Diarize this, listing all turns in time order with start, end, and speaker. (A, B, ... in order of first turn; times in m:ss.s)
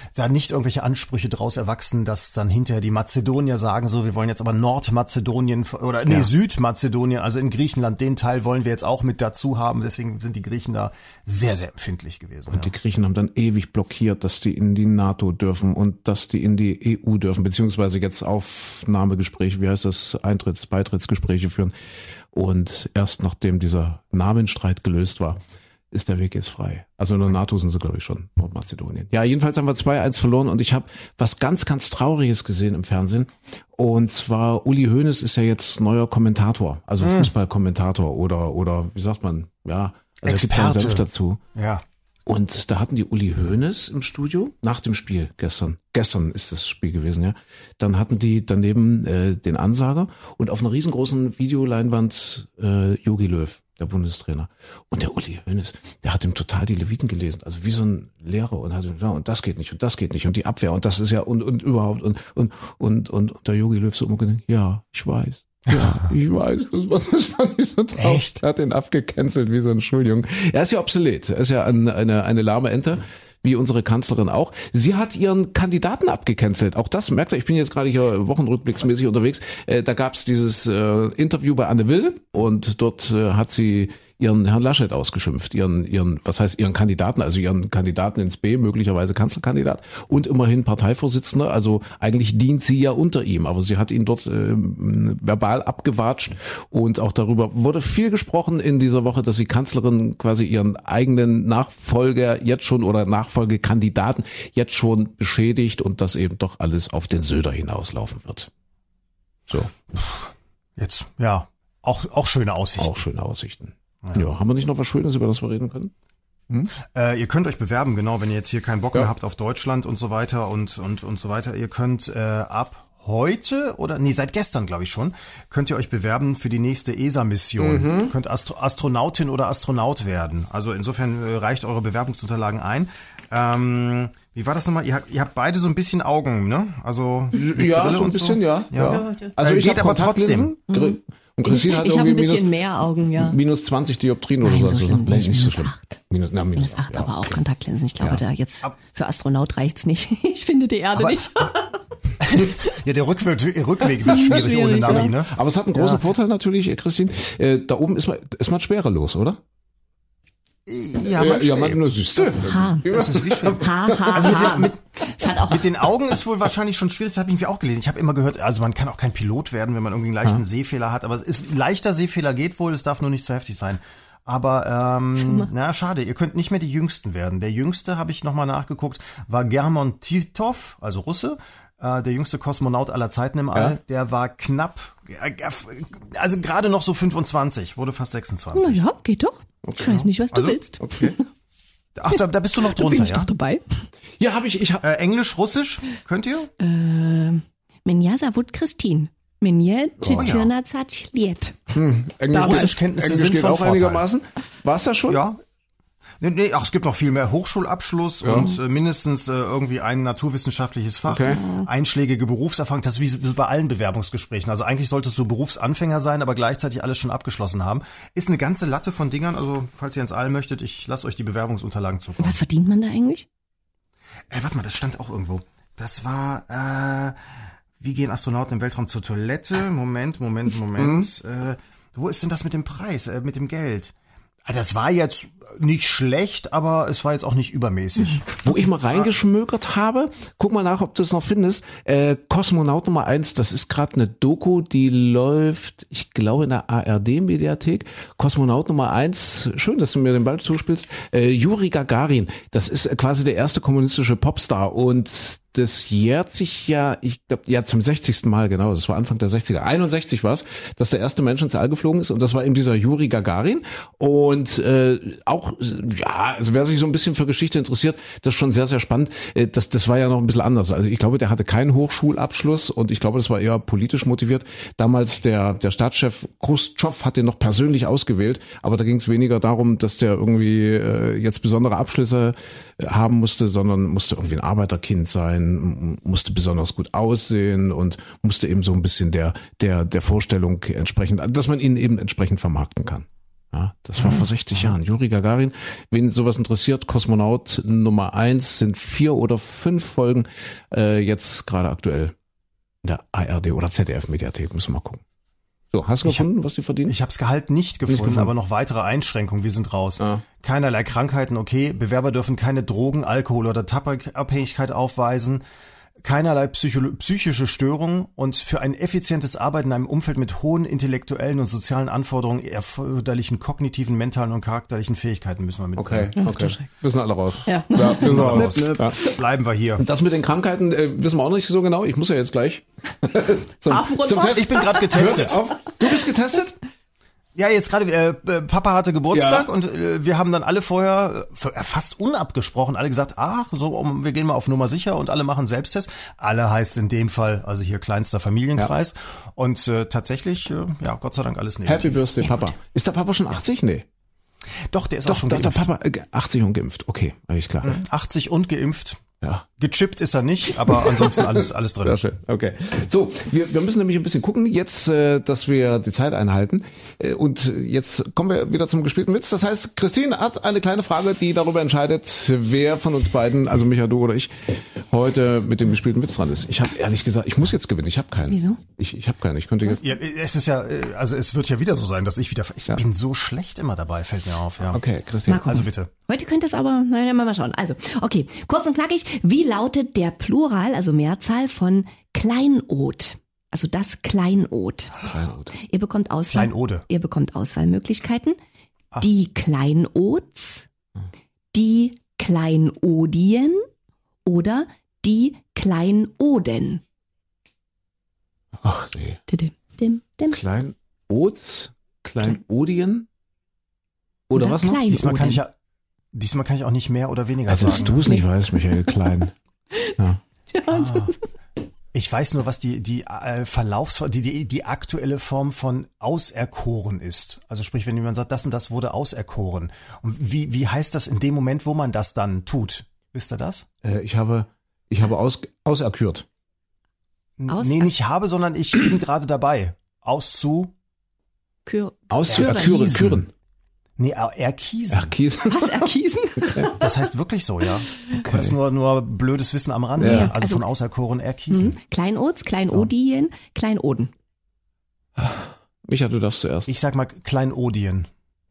0:00.1-0:12.7 A
0:12.5-0:21.7 B
0:22.3-0:41.4 B
0:37.0-0:37.3 A
0:40.2-0:41.8 A
0:42.3-1:48.5 B
1:08.0-1:08.4 A
1:49.5-1:49.7 B
1:50.0-1:53.0 A
1:52.8-1:55.9 B
1:54.0-1:54.3 A
1:56.9-2:20.6 A
2:07.6-2:08.1 B
2:17.3-2:22.6 B
2:18.8-2:19.4 C
2:20.7-2:23.4 C
2:23.1-2:27.4 B
2:24.4-2:26.0 C
2:26.6-2:31.8 C
2:32.2-2:36.0 A
2:34.0-2:35.1 C
2:34.1-2:39.4 B
2:40.7-2:44.8 A
2:41.1-2:44.6 B
2:42.4-2:42.9 C
2:43.5-2:45.7 C
2:45.4-3:08.8 A
2:55.2-2:55.5 C
3:08.5-3:11.2 C
3:09.6-3:11.2 B
3:12.0-3:13.3 A
3:12.1-3:13.8 C
3:14.2-3:14.8 B
3:14.8-3:16.5 A
3:16.6-3:21.6 C
3:20.0-3:20.4 B
3:20.1-3:20.5 A
3:21.7-3:25.2 B
3:22.3-3:22.8 C
3:22.3-3:24.0 A
3:25.1-3:25.4 A
3:26.2-3:42.4 A
3:28.2-3:28.6 B
3:31.1-3:31.4 B
3:31.3-3:31.7 C
3:42.2-3:43.3 C
3:44.3-3:47.2 A
3:47.8-3:53.9 A
3:50.8-3:51.1 B
3:54.5-3:59.1 A
3:58.4-5:02.1 B
5:02.8-5:05.0 B
5:05.7-5:07.0 B
5:06.9-5:15.4 A
5:07.9-5:08.3 B
5:10.0-5:10.2 B
5:16.0-5:26.1 A
5:25.8-5:29.0 B
5:26.2-5:26.6 C
5:27.5-5:29.1 C
5:28.0-5:29.8 A
5:29.8-5:36.6 B
5:33.6-5:34.9 C
5:34.3-5:35.4 A
5:37.4-5:52.2 A
5:39.1-5:39.5 B
5:51.6-5:53.8 B
5:54.7-5:55.7 A
5:55.1-5:57.8 B
5:57.6-5:59.0 A
5:59.6-6:02.0 A
6:00.6-6:19.8 B
6:18.3-6:18.6 C
6:19.8-6:24.8 A
6:24.7-6:25.7 B
6:25.3-6:35.0 C
6:25.4-6:25.9 A
6:35.1-6:35.5 B
6:35.6-6:38.4 C
6:36.3-6:36.9 A
6:39.0-6:40.6 C
6:41.5-6:43.6 C
6:44.2-6:46.8 C
6:48.6-6:49.2 B
6:49.3-6:50.4 C
6:50.3-6:53.1 B
6:54.3-6:54.9 B
6:54.4-6:55.4 C
6:54.9-6:55.5 A
6:56.1-6:58.1 A
6:57.5-6:59.3 B
6:57.9-6:58.2 C
7:00.5-7:01.2 C
7:00.7-7:01.1 A
7:01.9-7:13.6 A
7:13.8-7:16.3 B
7:17.4-7:20.7 A
7:17.5-7:17.9 C
7:21.6-7:23.0 C
7:22.1-7:23.3 B
7:22.3-7:23.2 A
7:24.0-7:25.1 A
7:24.9-7:25.9 B
7:25.4-7:26.9 C
7:26.4-7:26.7 B
7:26.7-7:31.8 A
7:28.1-7:28.6 B
7:30.0-7:30.3 B
7:30.0-7:30.6 C
7:31.5-7:34.1 C
7:35.2-7:36.7 B
7:36.7-7:38.1 A